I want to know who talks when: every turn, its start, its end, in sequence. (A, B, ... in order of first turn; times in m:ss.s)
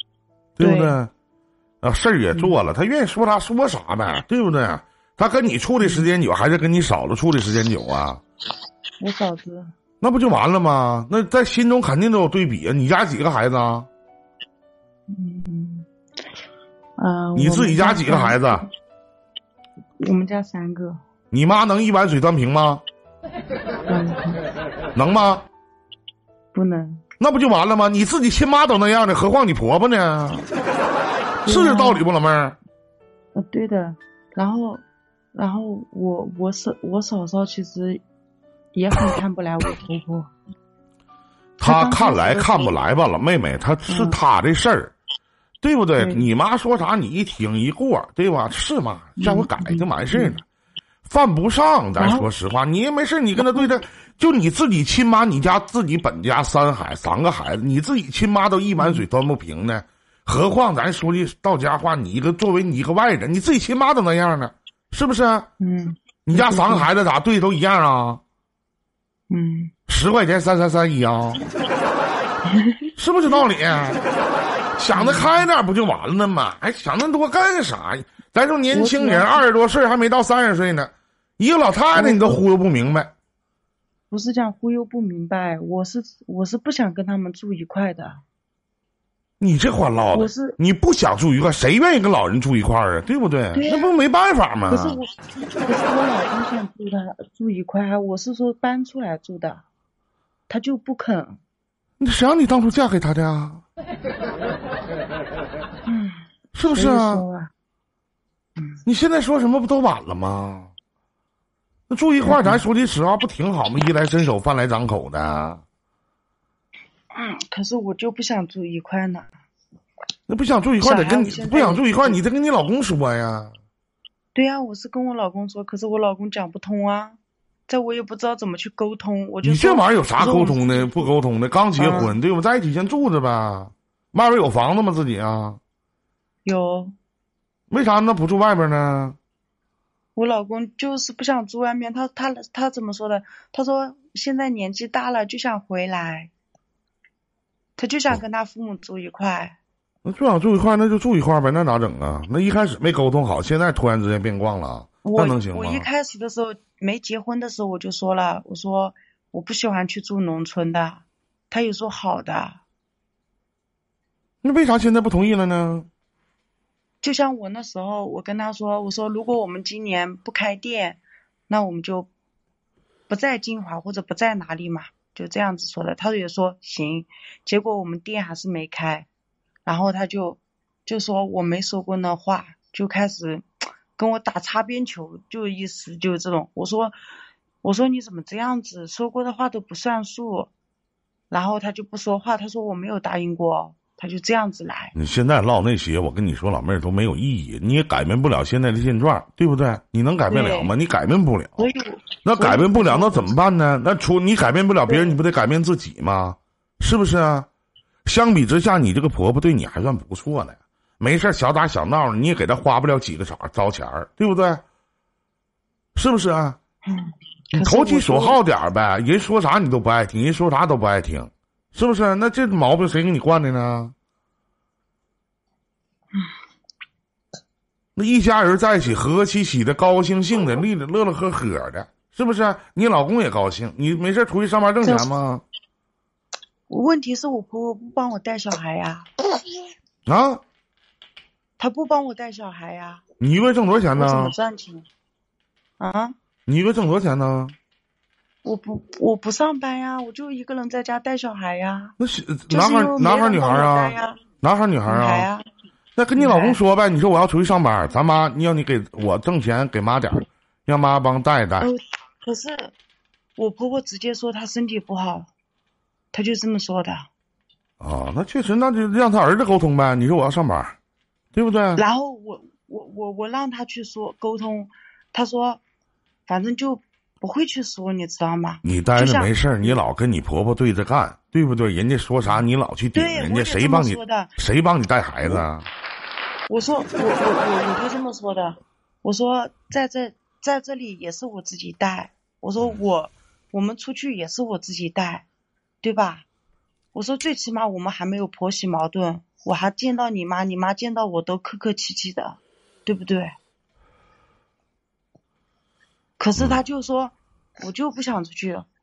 0:00.6-0:01.1 A
0:00.6-0:01.0 B
0:01.8-0:08.2 A
0:02.3-0:02.6 B
0:05.8-0:06.1 B
0:09.0-0:09.7 B
0:10.0-0:13.9 A
0:15.1-0:15.9 B
0:17.0-0:18.6 B
0:17.4-0:18.6 A
0:20.0-0:21.0 B
0:21.3-0:22.8 A
0:23.9-0:24.4 B
0:25.0-0:25.5 A
0:26.5-0:27.0 B
0:27.2-0:30.5 A
0:31.4-0:32.0 B
0:31.5-0:32.6 A
0:33.3-0:34.8 B
0:35.3-0:38.0 B
0:38.7-0:40.3 B
0:41.6-0:42.8 B
0:41.6-0:44.9 A
0:43.9-0:44.2 B
0:45.6-0:50.4 A
0:46.0-0:46.3 B
0:49.2-0:50.4 B
0:51.0-1:05.5 A
0:52.0-0:52.3 B
0:58.8-0:59.0 B
1:05.6-1:06.9 B
1:06.2-1:08.2 A
1:09.3-1:09.7 B
1:09.9-1:11.4 A
1:12.5-1:12.8 B
1:13.0-1:14.0 A
1:14.8-1:23.1 A
1:14.9-1:15.4 B
1:18.7-1:19.4 B
1:21.9-1:22.4 B
1:24.1-1:28.2 B
1:29.4-1:35.0 A
1:30.1-1:30.6 B
1:33.5-1:33.9 B
1:34.7-1:35.1 B
1:35.6-1:39.6 B
1:40.5-1:41.4 B
1:42.0-1:43.6 A
1:45.8-1:47.5 B
1:46.5-1:47.2 A
1:48.8-1:50.7 A
1:51.9-1:55.6 A
1:52.2-1:52.6 B
1:57.1-1:59.3 B
2:00.3-2:03.6 A
2:00.8-2:02.2 B
2:04.3-2:10.6 B
2:09.4-2:15.6 A
2:11.8-2:12.2 B
2:16.4-2:16.9 B
2:17.7-2:19.2 A
2:20.2-2:26.3 B
2:27.8-2:29.6 B
2:30.0-2:35.9 A
2:35.0-2:42.6 B
2:44.4-2:45.9 A
2:47.0-2:52.1 B
2:53.1-2:59.1 B
2:59.6-3:07.0 B
3:07.6-3:10.5 B
3:11.3-3:14.9 B
3:14.9-3:21.6 A
3:20.3-3:20.7 B
3:21.6-3:23.3 B
3:22.2-3:27.5 A
3:24.9-3:25.2 B
3:28.0-3:34.6 A
3:36.0-3:36.6 A
3:36.8-3:38.4 B
3:37.5-3:43.9 A
3:48.0-3:55.4 A
3:54.8-3:55.1 B
3:56.7-3:59.1 B
4:00.1-4:00.4 A
4:01.6-4:03.0 B
4:03.2-4:04.3 A
4:04.0-4:04.8 B
4:05.8-4:06.1 B
4:06.5-4:07.5 A
4:08.4-4:12.0 B
4:12.0-4:15.3 A
4:12.5-4:14.2 B
4:14.9-4:15.4 B
4:16.0-4:21.7 A
4:16.2-4:16.6 B
4:21.6-4:22.7 B
4:23.4-4:25.3 B
4:26.1-4:27.1 B
4:27.8-4:30.8 A
4:31.3-4:31.8 A
4:31.8-4:35.6 B
4:36.3-4:39.8 B
4:38.6-4:45.7 A
4:42.9-4:44.4 B
4:46.5-4:55.2 B
4:55.8-4:56.2 B
4:56.9-5:03.3 B
5:06.2-5:08.7 B